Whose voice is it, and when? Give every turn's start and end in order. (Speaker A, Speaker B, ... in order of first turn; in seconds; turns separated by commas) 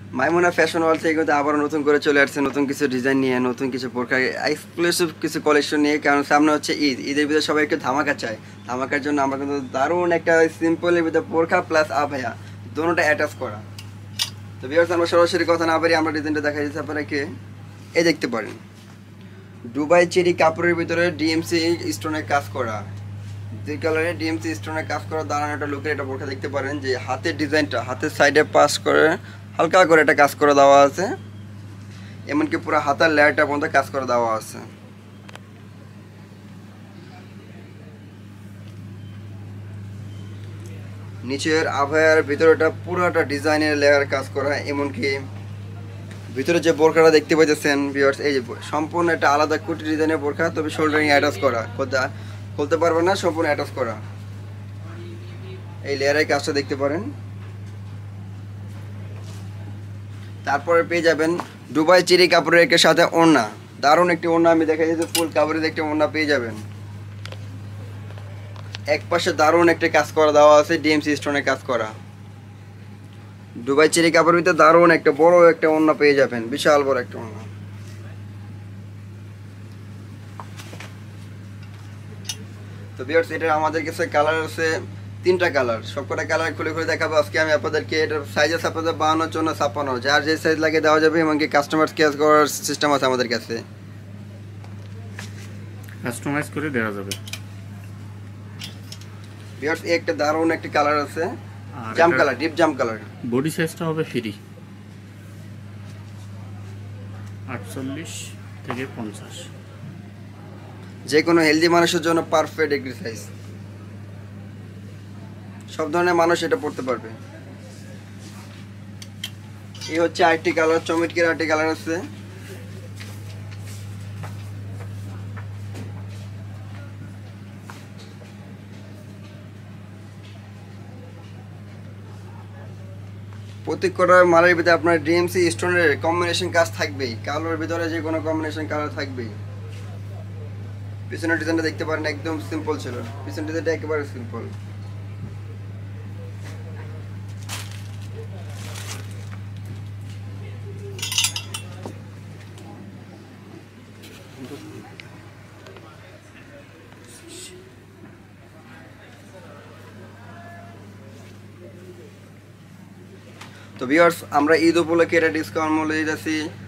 Speaker A: 0.2-13.6, Speaker A: 14.6-17.3, Speaker A: 18.0-18.6, Speaker A: 19.7-22.9, Speaker A: 23.6-31.1, Speaker A: 32.3-34.7, Speaker A: 41.2-45.2, Speaker A: 46.3-54.0, Speaker A: 55.9-57.1, Speaker A: 60.5-66.6, Speaker A: 68.9-72.0, Speaker A: 73.6-77.5, Speaker A: 83.0-93.6, Speaker B: 96.0-97.2, Speaker A: 99.6-101.3, Speaker B: 101.8-102.3, Speaker A: 101.9-103.1, Speaker B: 103.3-104.4, Speaker B: 107.5-109.5, Speaker A: 111.1-113.3, Speaker A: 115.7-117.2, Speaker A: 119.9-122.0, Speaker A: 133.7-139.4, Speaker A: 141.1-144.5, Speaker A: 163.8-166.4